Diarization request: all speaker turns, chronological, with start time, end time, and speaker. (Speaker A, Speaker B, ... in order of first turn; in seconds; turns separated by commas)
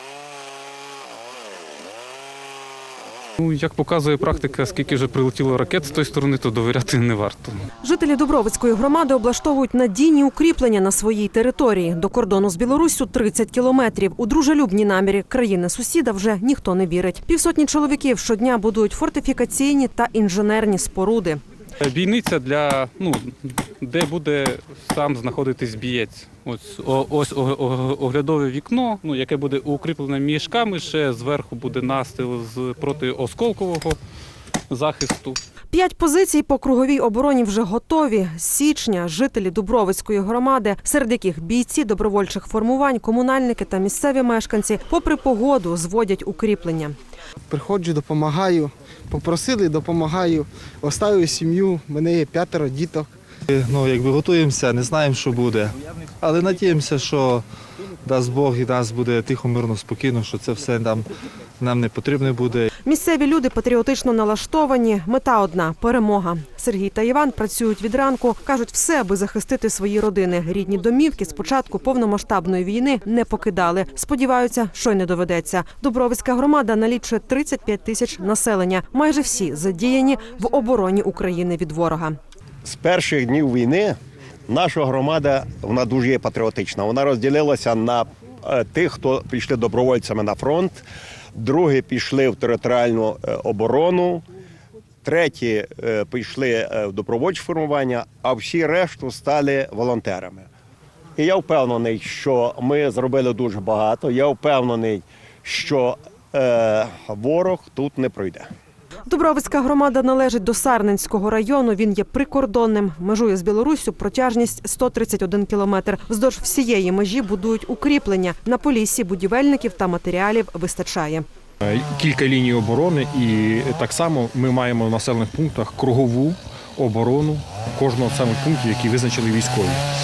Speaker A: 3.4-7.5, Speaker B: 7.8-21.4, Speaker A: 21.8-34.0, Speaker A: 34.7-35.4, Speaker B: 35.7-46.9, Speaker C: 47.5-53.1, Speaker D: 53.5-57.5, Speaker D: 58.0-61.1, Speaker D: 61.6-62.7, Speaker B: 62.8-82.2, Speaker E: 82.6-84.0, Speaker E: 84.5-94.2, Speaker E: 95.0-100.5, Speaker E: 101.2-108.5, Speaker B: 109.1-121.2, Speaker F: 121.6-129.8